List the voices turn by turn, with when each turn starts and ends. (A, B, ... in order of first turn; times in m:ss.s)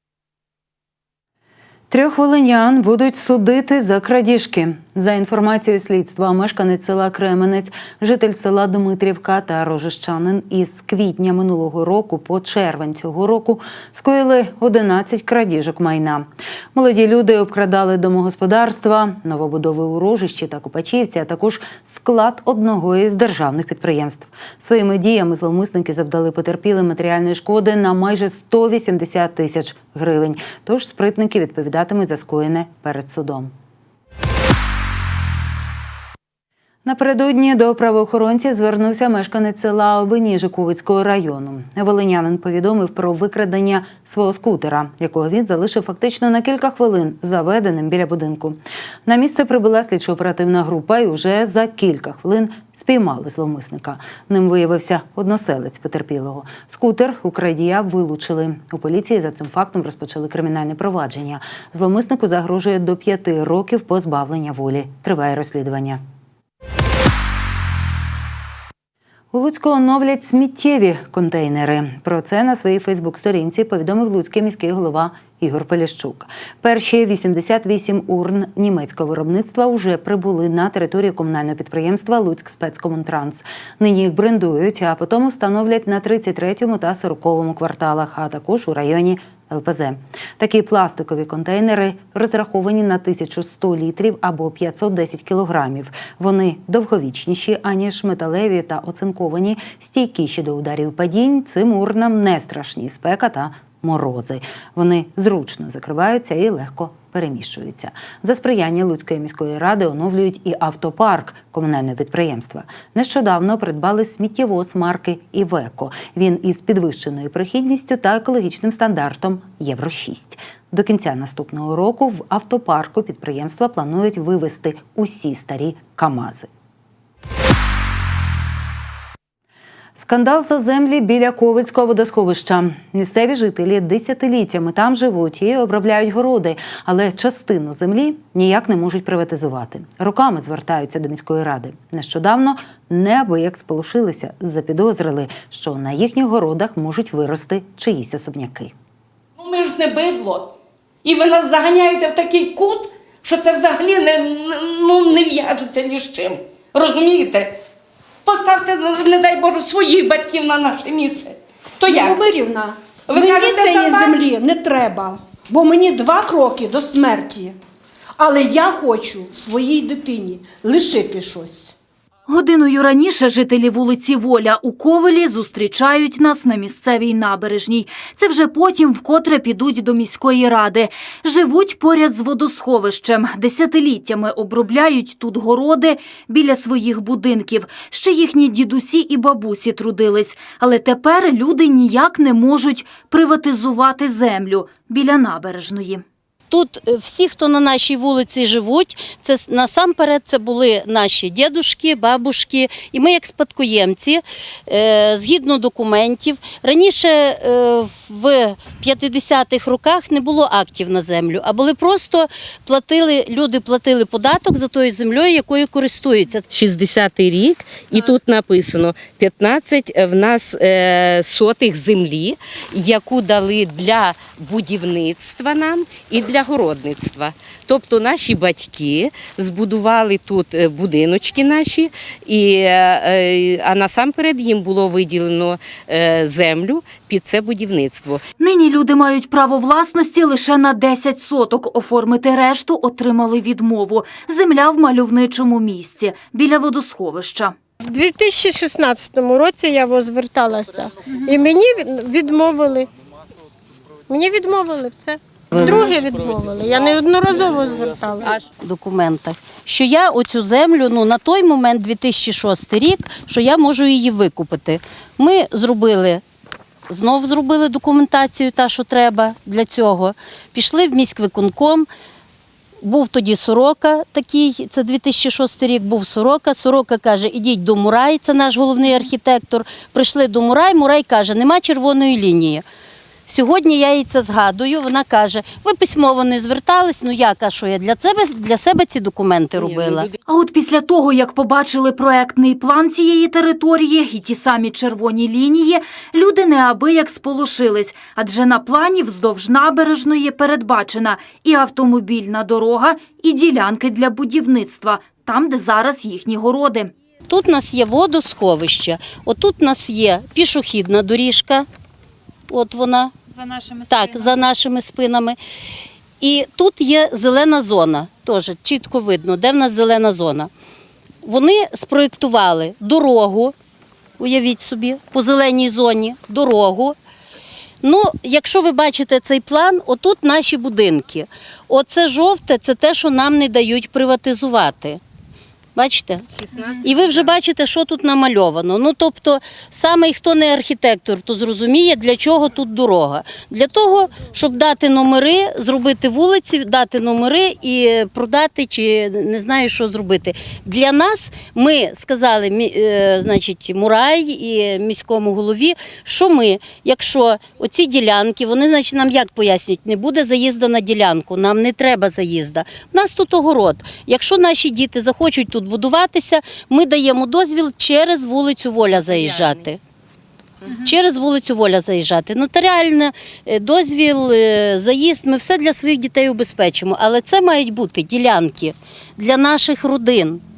0:01.9-0:33.5 A
0:36.8-1:06.0 A
1:09.3-2:06.5 A
2:10.0-2:28.7 A
2:29.4-2:37.6 B
2:38.2-2:42.3 B
2:41.8-2:47.5 C
2:43.1-2:44.2 B
2:48.2-2:51.8 C
2:52.3-3:16.0 D
3:16.5-3:36.5 E
3:36.5-3:58.2 F
3:58.4-4:07.6 D
4:07.8-4:12.9 G
4:14.1-4:18.3 G
4:15.5-4:15.9 E
4:18.6-4:26.2 E
4:26.9-4:31.9 E
4:32.8-4:42.6 E
4:43.3-4:50.1 E
4:49.6-4:50.1 F
4:50.3-5:06.9 D
5:07.3-5:11.7 E
5:12.5-5:13.1 E
5:13.9-5:15.4 E
5:16.2-5:20.5 E
5:21.2-5:23.5 E
5:24.2-5:27.0 E
5:27.8-5:35.0 E
5:35.8-6:09.8 E
5:36.4-5:37.3 F
6:09.1-6:09.6 F
6:10.7-6:20.4 E